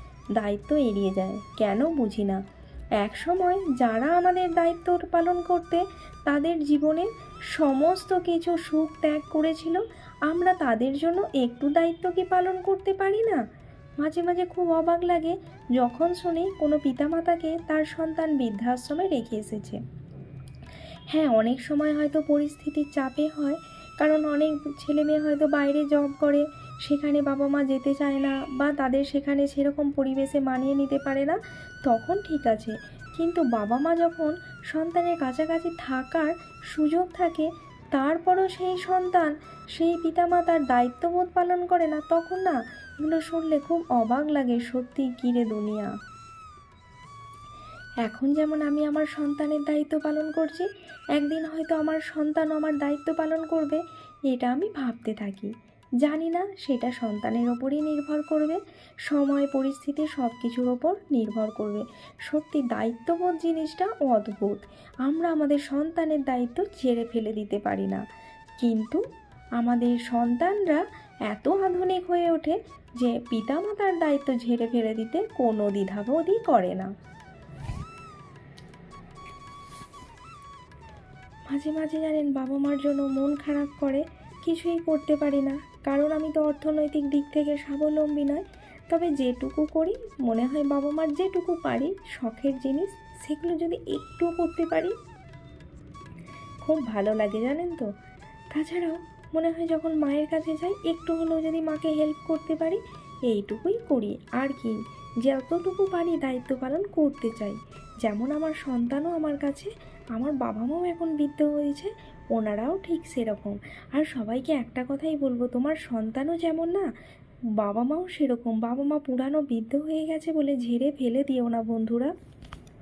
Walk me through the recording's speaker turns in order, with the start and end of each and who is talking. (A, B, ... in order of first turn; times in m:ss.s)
0:00.4-0:02.4 A
0:03.0-0:13.4 A
0:14.0-0:19.8 A
0:21.1-0:45.9 A
0:48.0-1:08.0 A
1:08.6-1:09.0 A
1:09.6-1:16.9 A
1:21.5-1:34.9 A
1:36.6-1:37.9 A
1:38.5-1:56.9 A
1:57.6-2:02.1 A